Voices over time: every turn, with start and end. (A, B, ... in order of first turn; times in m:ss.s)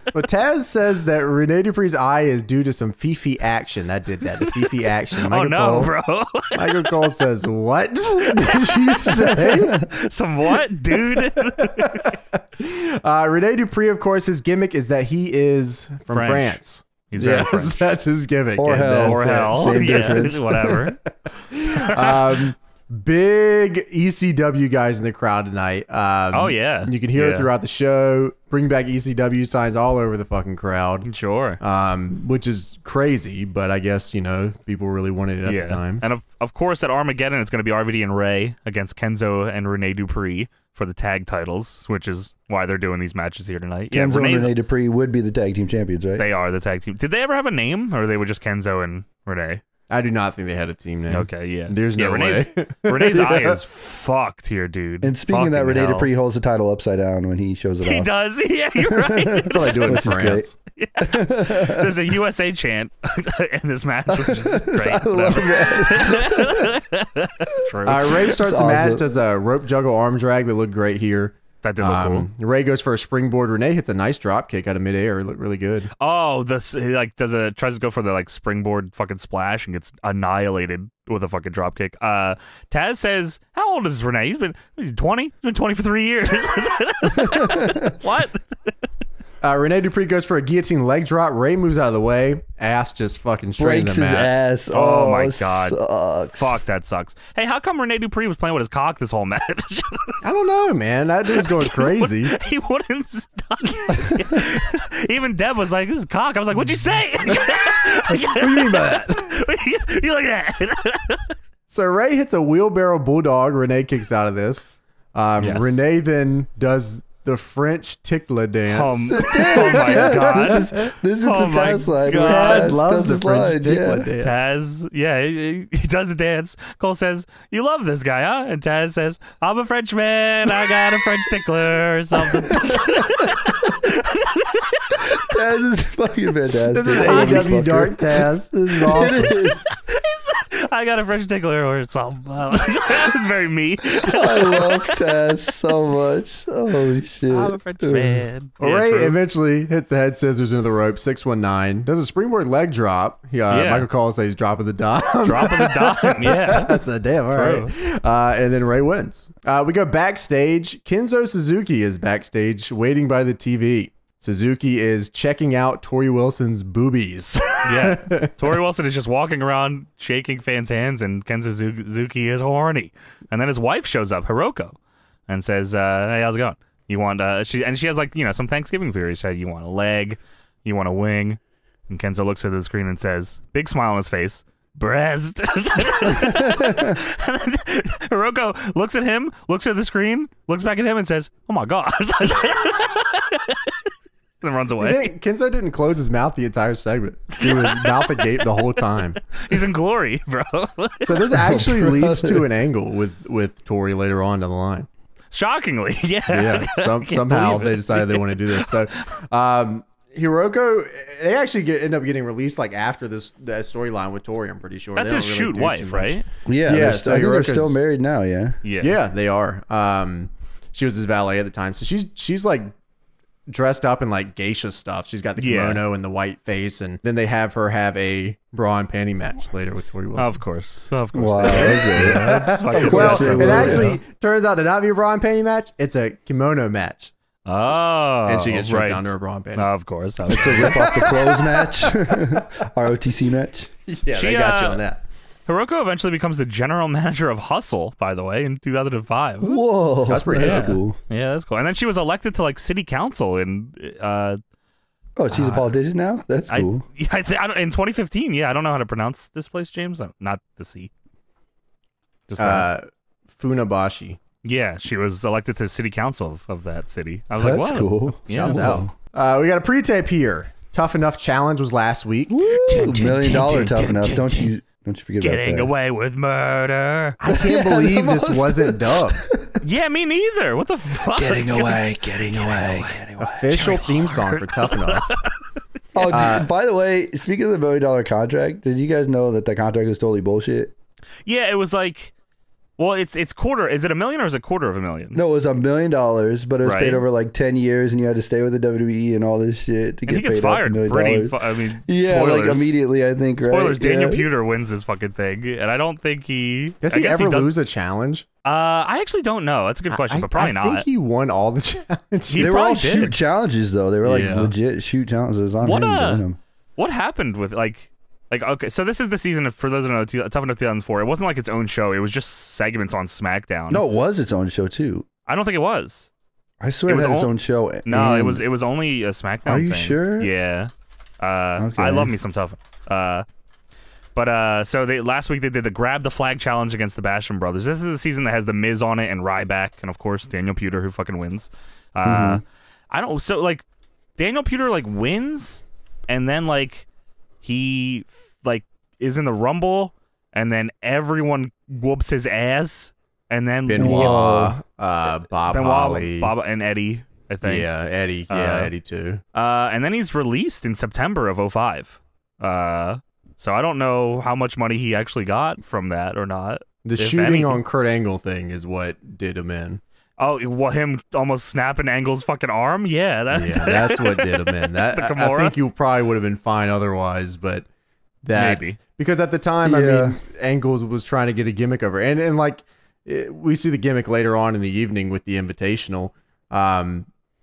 0:00.1-0:05.9 A
0:05.3-0:06.9 B
0:06.5-0:09.9 A
0:08.2-0:12.1 B
0:09.5-0:09.8 C
0:10.9-0:20.8 A
0:16.1-0:17.8 B
0:18.6-0:20.9 C
0:19.0-0:21.0 B
0:21.5-0:31.1 A
0:21.7-0:22.3 B
0:26.3-0:27.5 B
0:31.0-0:31.6 B
0:31.6-0:36.0 A
0:35.4-0:44.5 B
0:43.9-0:46.2 C
0:46.2-0:49.6 B
0:49.9-0:53.6 A
0:51.1-0:56.1 B
0:55.0-0:58.1 C
0:57.8-0:59.8 B
0:58.8-1:02.0 C
0:59.4-1:00.5 A
1:00.7-1:08.2 B
1:04.1-1:06.7 C
1:07.8-1:15.9 A
1:08.3-1:09.0 C
1:11.6-1:12.3 B
1:16.0-1:28.7 B
1:27.2-1:27.9 C
1:29.4-1:34.3 A
1:33.6-1:36.6 C
1:34.7-1:35.8 B
1:36.3-1:40.2 B
1:40.2-1:42.3 A
1:41.4-1:51.4 B
1:47.3-1:49.4 A
1:51.7-2:00.9 A
1:55.4-1:55.8 B
1:58.7-2:02.8 B
1:59.1-2:04.1 C
2:02.1-2:04.5 A
2:04.2-2:15.2 B
2:12.1-2:13.8 C
2:15.0-2:19.6 C
2:16.7-2:19.3 A
2:17.0-2:17.5 B
2:19.8-2:25.0 B
2:24.0-2:28.2 C
2:27.3-2:29.2 B
2:28.6-2:48.4 A
2:33.5-2:33.9 B
2:35.2-2:36.8 B
2:37.3-2:37.7 B
2:47.6-2:54.8 B
2:55.3-3:13.8 B
3:06.2-3:07.0 C
3:14.4-3:15.1 B
3:14.8-3:19.2 A
3:17.4-3:18.2 B
3:19.4-3:21.3 B
3:21.0-3:24.9 A
3:21.3-3:22.5 C
3:25.3-3:29.0 B
3:26.3-3:37.8 A
3:35.0-3:36.2 B
3:36.4-3:38.6 C
3:38.6-3:39.0 B
3:38.8-3:42.7 A
3:43.5-3:50.4 A
3:45.4-3:45.8 B
3:50.2-3:53.9 B
3:51.1-3:54.0 C
3:51.4-3:57.1 A
3:57.4-4:00.9 B
3:58.3-3:59.7 A
4:00.3-4:03.7 C
4:00.3-4:02.2 A
4:03.9-4:05.0 A
4:04.1-4:04.8 B
4:05.5-4:09.6 B
4:09.4-4:11.0 C
4:10.1-4:10.8 A
4:10.4-4:14.4 B
4:15.2-4:16.8 C
4:15.3-4:15.6 B
4:16.5-4:20.9 B
4:22.3-4:22.7 B
4:22.4-4:24.2 A
4:24.4-4:28.7 B
4:27.4-4:28.9 C
4:28.3-4:32.4 A
4:32.3-4:35.7 C
4:32.5-4:34.5 B
4:35.2-4:37.2 B
4:37.2-4:39.2 A
4:37.3-4:39.6 C
4:39.6-4:45.3 B
4:41.1-4:43.4 C
4:43.2-4:45.1 A
4:45.9-4:50.7 C
4:46.1-4:46.5 A
4:51.2-4:52.1 B
4:52.8-4:55.2 B
4:55.1-5:01.3 C
4:56.6-4:57.0 B
5:00.1-5:02.8 B
5:01.9-5:04.2 C
5:03.4-5:07.5 B
5:06.8-5:08.2 A
5:08.4-5:10.8 B
5:09.9-5:12.9 A
5:12.3-5:13.1 B
5:12.4-5:16.4 C
5:14.0-5:14.5 A
5:15.6-5:16.2 B
5:16.8-5:23.8 B
5:23.7-5:25.1 C
5:25.3-5:26.1 B
5:26.6-5:28.4 C
5:26.9-5:27.3 B
5:27.8-5:33.2 B
5:29.4-5:30.3 C
5:31.6-5:32.1 C
5:34.1-5:43.6 B
5:42.0-5:42.4 C
5:44.2-5:46.8 B
5:47.4-5:54.3 B
5:53.7-5:56.3 A
5:53.8-5:54.6 C
5:55.5-5:57.7 B
5:57.4-5:59.2 A
5:58.3-5:58.7 B
5:59.3-6:07.6 B
6:06.8-6:09.8 A
6:10.2-6:15.5 B
6:13.3-6:17.7 A
6:18.2-6:27.1 A
6:18.3-6:18.8 B
6:19.6-6:20.2 C